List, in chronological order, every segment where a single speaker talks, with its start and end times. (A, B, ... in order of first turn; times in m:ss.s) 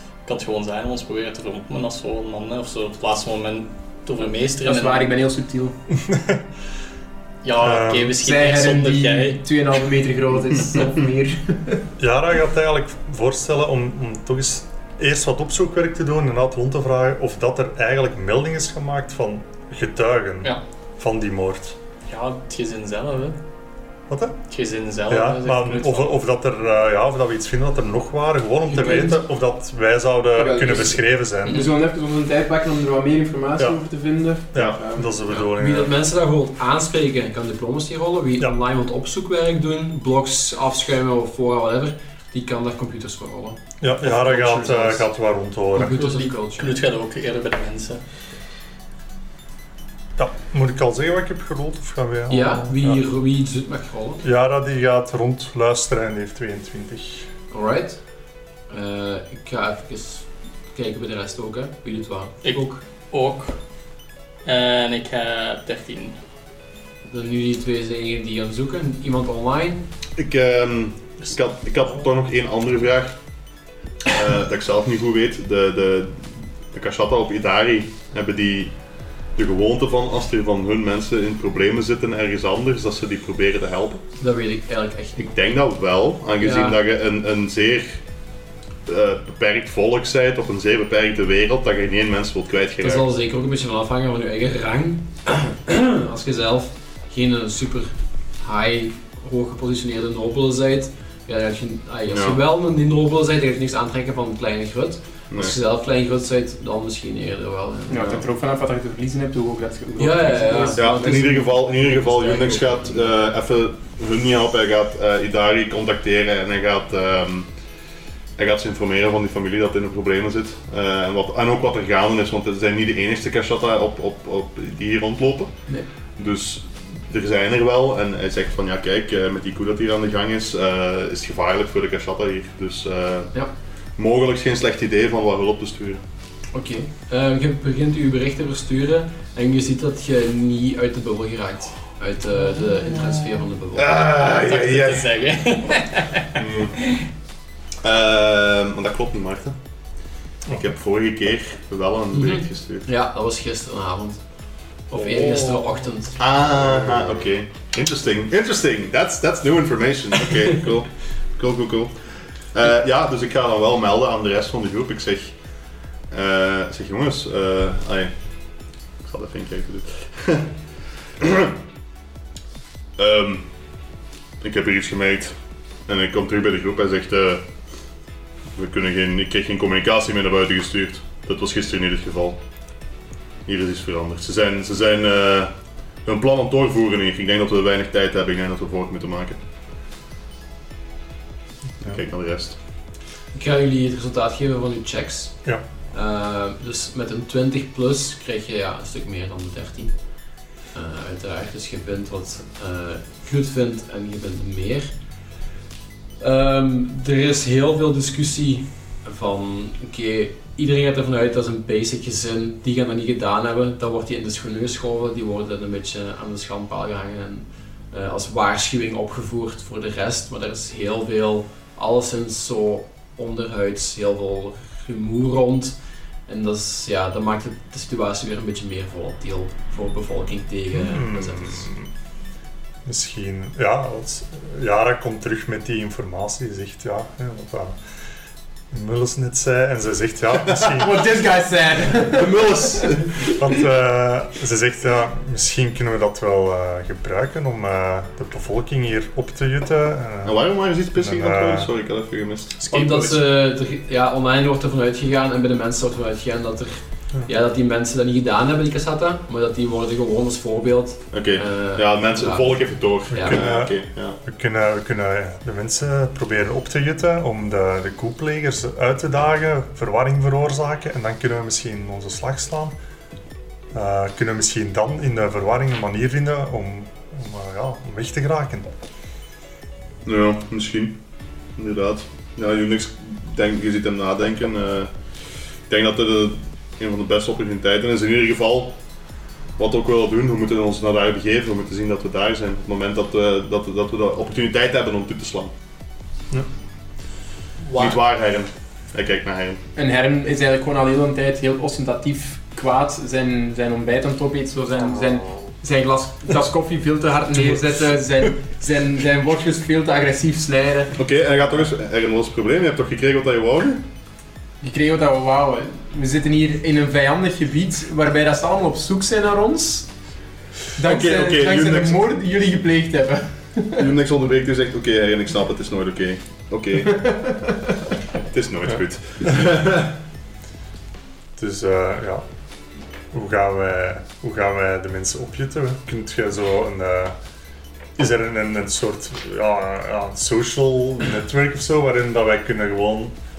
0:00.2-0:05.1 A
0:04.6-0:05.8 B
0:05.9-0:06.4 C
0:07.4-0:09.4 A
0:07.6-0:08.2 C
0:08.2-0:11.8 B
0:12.0-0:21.8 C
0:22.1-0:23.4 A
0:24.1-0:24.4 C
0:24.5-0:26.1 A
0:25.1-0:31.7 C
0:30.4-0:35.1 B
0:34.5-0:35.9 C
0:35.6-0:45.0 D
0:43.8-0:46.0 C
0:45.8-0:46.7 D
0:45.8-0:48.0 A
0:50.2-0:53.0 C
0:52.3-0:54.2 D
0:54.2-0:57.3 C
0:57.5-0:58.0 D
0:58.7-1:02.8 D
1:02.4-1:03.6 A
1:04.4-1:06.2 A
1:07.1-1:09.9 D
1:10.2-1:13.2 E
1:14.1-1:18.7 E
1:19.4-1:24.0 E
1:24.2-1:25.3 D
1:25.2-1:28.0 E
1:26.4-1:26.8 D
1:28.9-1:33.1 E
1:32.8-1:48.2 D
1:42.1-1:42.4 E
1:45.3-1:45.6 E
1:47.9-1:51.2 B
1:50.0-1:53.0 D
1:50.8-1:57.5 E
1:58.4-2:05.5 E
2:06.2-2:13.3 E
2:14.0-2:16.0 E
2:16.5-2:23.9 D
2:23.8-2:25.1 E
2:24.2-2:27.0 A
2:26.4-2:26.8 E
2:27.8-2:29.6 E
2:30.5-2:32.9 E
2:32.1-2:34.2 D
2:34.9-2:36.2 D
2:35.1-2:35.6 A
2:36.2-2:42.0 E
2:42.5-2:45.4 E
2:46.1-2:48.1 E
2:49.0-2:50.6 E
2:51.2-2:51.6 E
2:53.0-2:53.5 E
2:54.4-2:55.4 E
2:55.9-2:57.5 E
2:58.6-3:02.4 E
3:03.5-3:05.5 E
3:06.0-3:09.4 E
3:11.8-3:12.6 E
3:13.3-3:15.4 D
3:15.9-3:19.9 D
3:20.7-3:24.9 D
3:26.2-3:45.8 D
3:46.3-3:51.7 D
3:50.7-3:51.9 C
3:52.8-3:57.8 C
3:58.7-4:01.1 C
4:00.5-4:00.8 E
4:00.8-4:03.0 B
4:02.1-4:03.3 E
4:03.3-4:10.4 C
4:10.2-4:13.1 E
4:11.0-4:11.7 C
4:12.7-4:22.6 D
4:21.1-4:24.2 E
4:23.1-4:23.4 D
4:23.2-4:32.7 C
4:33.7-4:38.7 C
4:40.0-4:41.0 E
4:41.6-4:44.9 E
4:45.7-4:48.8 E
4:49.6-4:55.5 E
4:57.7-4:58.0 A
4:57.8-4:59.6 E
4:59.8-5:11.0 B
5:11.0-5:13.8 E
5:14.6-5:19.9 B
5:20.8-5:23.9 B
5:20.8-5:22.1 E
5:23.8-5:27.4 E
5:27.0-5:27.7 B
5:28.3-5:30.0 E
5:31.4-5:32.2 C
5:33.1-5:37.2 C
5:38.0-5:43.1 C